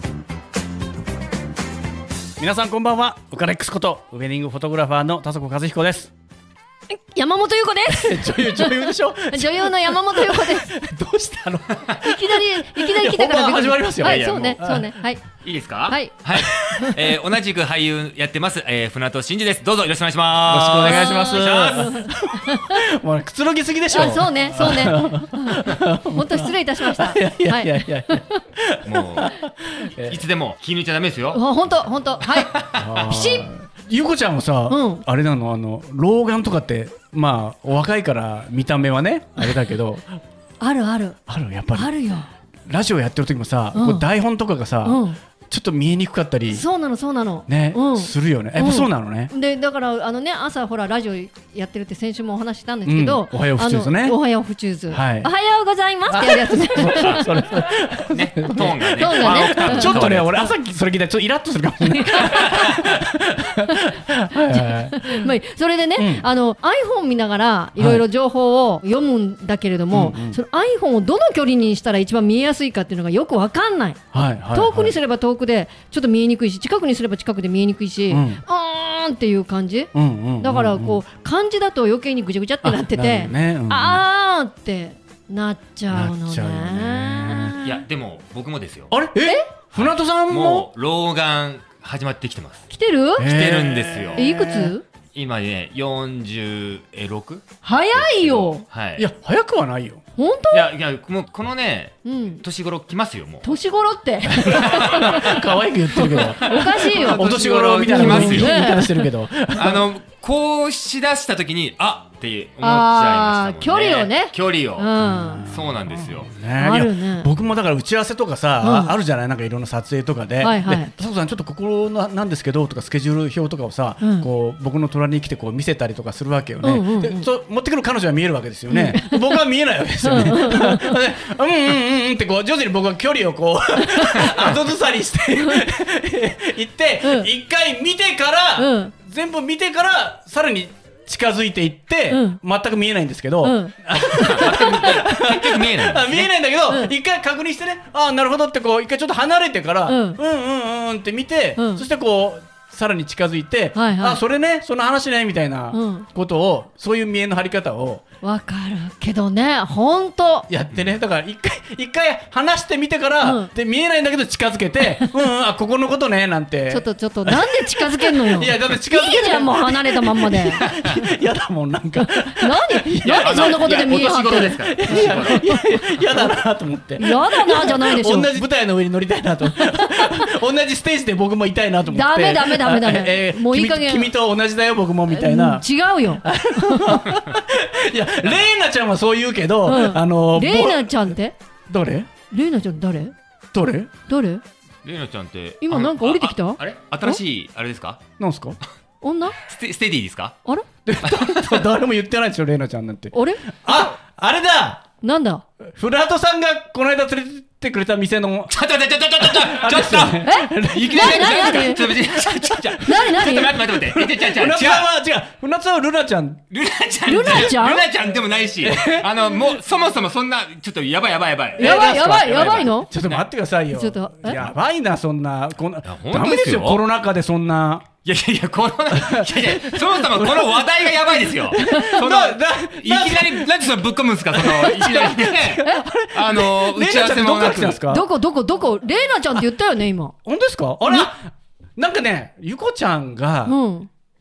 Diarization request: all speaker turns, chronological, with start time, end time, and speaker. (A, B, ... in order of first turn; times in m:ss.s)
0:02.4-0:06.1 A
0:06.9-0:10.7 B
0:07.9-0:14.9 A
0:12.0-0:15.2 B
0:14.0-0:14.8 C
0:15.4-0:22.0 C
0:15.9-0:16.2 B
0:16.3-0:16.9 A
0:20.4-0:30.2 A
0:20.8-0:22.8 B
0:23.9-0:28.4 B
0:28.8-0:29.3 C
0:30.1-0:31.4 C
0:31.3-0:33.5 B
0:32.3-0:32.8 C
0:32.7-0:40.2 A
0:34.7-0:35.0 B
0:40.6-0:41.2 B
0:41.3-0:41.9 A
0:41.7-0:42.3 B
0:42.7-0:46.6 A
0:43.7-0:44.0 B
0:44.8-0:45.2 B
0:46.5-0:57.3 B
0:47.5-0:49.3 A
0:52.8-0:54.2 A
0:54.9-0:55.3 A
0:56.1-1:05.3 A
0:56.9-0:57.2 C
0:58.0-1:00.5 C
0:58.5-1:00.1 B
1:01.8-1:02.8 B
1:03.7-1:04.0 B
1:04.5-1:14.0 B
1:06.0-1:06.2 A
1:07.8-1:08.0 A
1:09.9-1:10.4 A
1:14.1-1:15.0 A
1:14.5-1:27.7 B
1:18.1-1:18.4 A
1:19.9-1:21.0 A
1:22.6-1:24.0 A
1:25.9-1:27.6 A
1:27.6-1:28.9 C
1:28.9-1:30.7 A
1:29.2-1:29.5 B
1:29.7-1:32.7 C
1:32.7-1:33.3 B
1:33.2-1:34.7 A
1:33.2-1:34.3 C
1:34.2-1:34.8 B
1:35.1-1:39.1 C
1:37.6-1:38.6 B
1:39.0-1:40.0 A
1:40.2-1:40.7 B
1:40.5-1:43.4 C
1:42.0-1:42.4 B
1:43.4-1:45.3 B
1:44.3-1:49.8 A
1:44.4-1:45.4 C
1:46.0-1:48.9 C
1:46.2-1:49.0 B
1:49.5-1:56.3 C
1:52.6-1:55.4 B
1:55.0-2:38.0 A
1:56.6-1:57.3 B
1:58.6-1:58.9 B
2:00.4-2:00.9 B
2:04.0-2:04.2 B
2:06.6-2:07.2 B
2:08.7-2:09.4 B
2:10.0-2:11.0 B
2:13.8-2:14.3 B
2:17.0-2:17.3 B
2:18.6-2:18.9 B
2:22.1-2:22.4 B
2:23.4-2:24.9 B
2:24.2-2:26.3 C
2:29.8-2:30.2 B
2:31.6-2:31.8 B
2:33.7-2:34.2 B
2:35.7-2:36.0 B
2:38.2-2:40.5 B
2:40.5-2:53.8 A
2:43.2-2:43.5 B
2:46.7-2:50.6 B
2:52.0-2:55.6 B
2:53.0-2:56.0 C
2:54.5-3:11.2 A
2:57.0-2:58.3 B
3:01.9-3:04.1 B
3:05.1-3:07.0 B
3:09.6-3:11.4 B
3:11.7-3:12.1 A
3:12.3-3:13.1 B
3:13.5-3:13.9 A
3:14.1-3:14.4 B
3:14.8-3:18.0 C
3:15.6-3:17.2 B
3:18.2-3:18.6 A
3:19.0-3:19.4 B
3:19.4-3:20.4 C
3:20.8-3:24.8 A
3:21.0-3:21.6 C
3:23.1-3:23.4 B
3:25.0-3:25.4 B
3:25.7-3:28.5 A
3:28.5-3:34.9 C
3:29.2-3:32.8 A
3:30.2-3:31.9 B
3:32.8-3:33.6 B
3:33.6-3:36.4 A
3:36.5-3:43.2 C
3:37.1-3:37.8 B
3:38.6-3:39.1 A
3:41.6-3:47.9 A
3:41.6-3:42.9 B
3:43.7-3:44.5 B
3:45.8-3:46.8 C
3:48.0-3:57.8 C
3:48.9-3:53.7 A
3:51.6-3:52.0 B
3:54.3-3:58.1 A
3:57.8-4:00.1 B
4:00.2-4:03.6 A
4:03.4-4:03.9 B